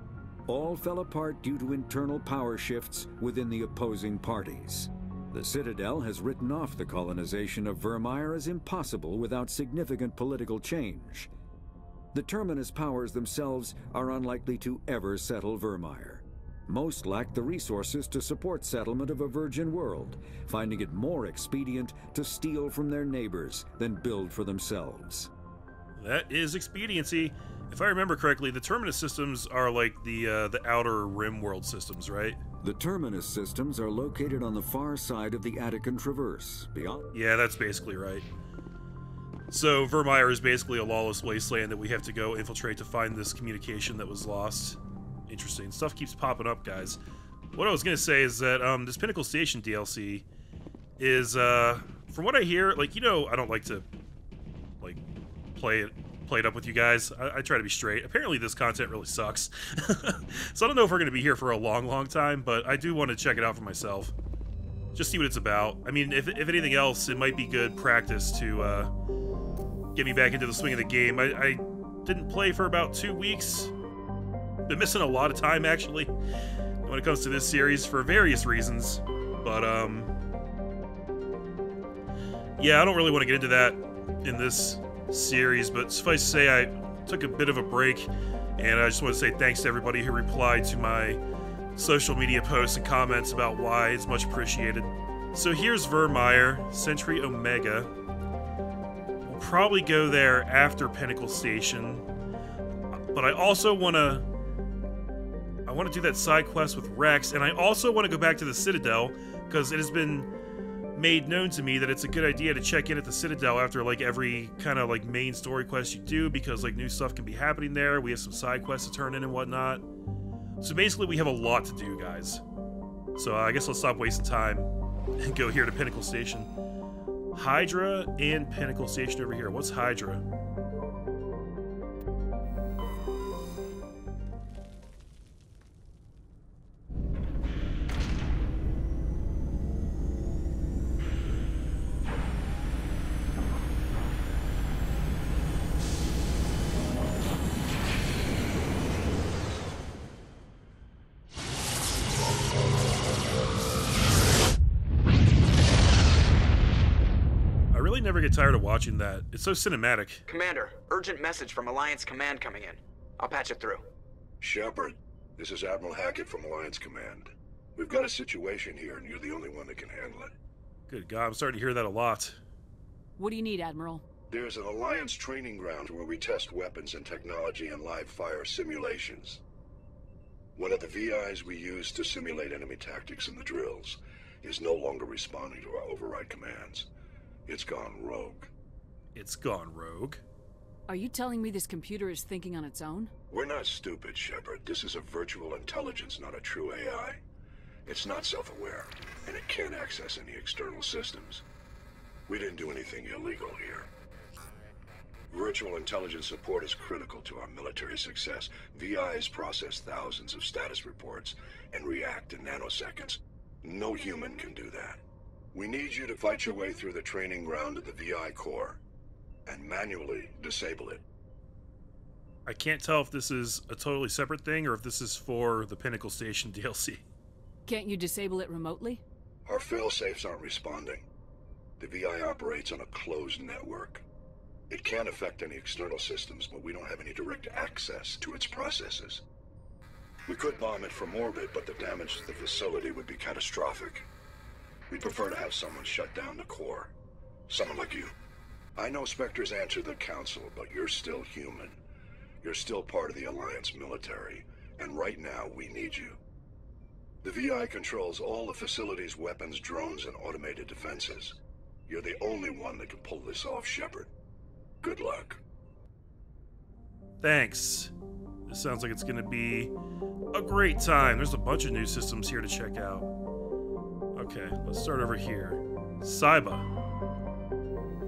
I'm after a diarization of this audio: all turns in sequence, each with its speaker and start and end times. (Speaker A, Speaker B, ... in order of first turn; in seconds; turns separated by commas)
Speaker A: 0.5-11.3, Speaker A: 12.1-25.3, Speaker B: 26.0-32.4, Speaker A: 32.6-37.1, Speaker B: 37.1-38.2, Speaker B: 39.5-47.0, Speaker B: 47.5-50.2, Speaker B: 51.0-53.9, Speaker B: 55.5-64.1, Speaker B: 64.9-68.9, Speaker B: 69.9-73.7, Speaker B: 74.7-76.1, Speaker B: 76.8-80.1, Speaker B: 82.6-91.2, Speaker B: 91.8-97.9, Speaker B: 99.2-102.0, Speaker B: 102.9-104.2, Speaker B: 105.7-110.3, Speaker B: 110.9-119.8, Speaker B: 120.6-122.4, Speaker B: 123.2-126.5, Speaker B: 127.3-130.2, Speaker B: 157.7-160.2, Speaker C: 160.3-163.9, Speaker D: 164.4-170.3, Speaker B: 170.9-172.4, Speaker E: 173.2-174.0, Speaker D: 174.3-179.4, Speaker D: 180.6-186.9, Speaker D: 187.5-188.5, Speaker B: 189.1-190.2, Speaker E: 190.9-193.1, Speaker D: 193.3-197.2, Speaker D: 197.8-201.4, Speaker D: 202.3-203.9, Speaker D: 205.3-215.0, Speaker D: 215.5-218.8, Speaker D: 219.4-221.0, Speaker B: 222.4-227.0, Speaker E: 227.7-229.0, Speaker D: 229.4-231.1, Speaker D: 231.8-234.0, Speaker D: 234.7-239.2, Speaker D: 240.3-244.1, Speaker D: 244.9-246.9, Speaker D: 247.5-248.1, Speaker D: 248.8-251.8, Speaker D: 252.4-256.2, Speaker D: 257.2-264.1, Speaker D: 264.8-265.4, Speaker B: 267.2-267.9, Speaker B: 268.4-269.7, Speaker B: 270.3-273.1, Speaker B: 274.1-276.7